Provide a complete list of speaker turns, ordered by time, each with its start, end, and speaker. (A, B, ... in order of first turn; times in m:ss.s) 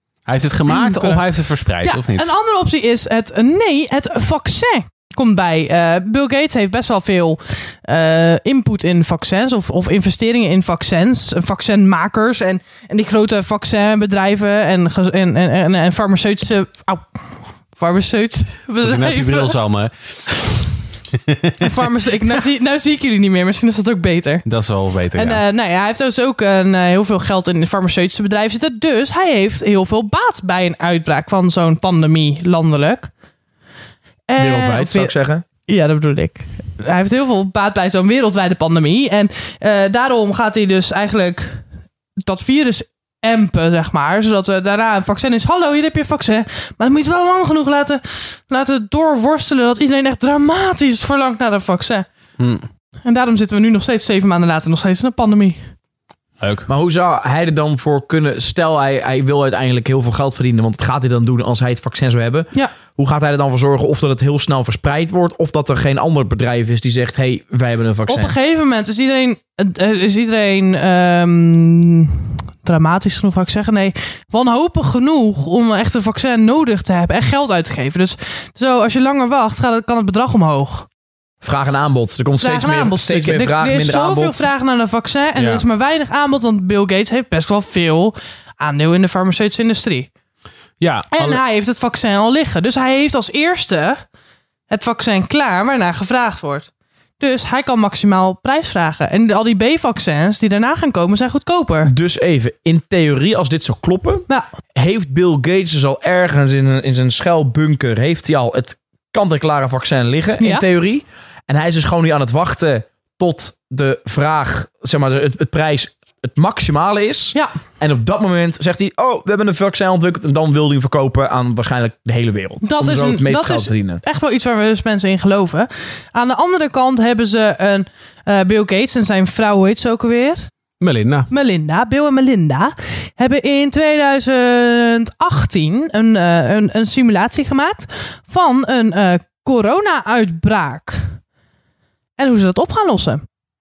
0:00.3-0:02.3 A
0:00.7-0:01.2 B
0:01.8-0:19.6 B
0:18.8-0:20.0 A
0:21.3-0:21.6 A
0:21.6-0:24.5 B
0:24.4-0:25.4 A
0:25.2-0:33.1 B
0:34.3-0:35.1 B
0:34.4-0:35.4 C
0:35.7-0:41.7 B
0:42.2-0:52.1 B
0:52.4-0:52.7 A
0:53.0-0:55.7 B
0:56.4-0:56.7 A
0:56.7-1:08.3 C
1:08.1-1:20.9 B
1:21.4-1:24.4 C
1:22.4-1:30.1 B
1:25.4-1:25.6 A
1:30.8-1:31.4 A
1:31.1-1:34.0 B
1:34.7-1:41.9 B
1:41.8-2:04.0 C
1:50.4-1:50.6 B
2:02.6-2:10.5 B
2:10.8-2:11.3 A
2:11.3-2:21.2 B
2:22.2-2:23.2 B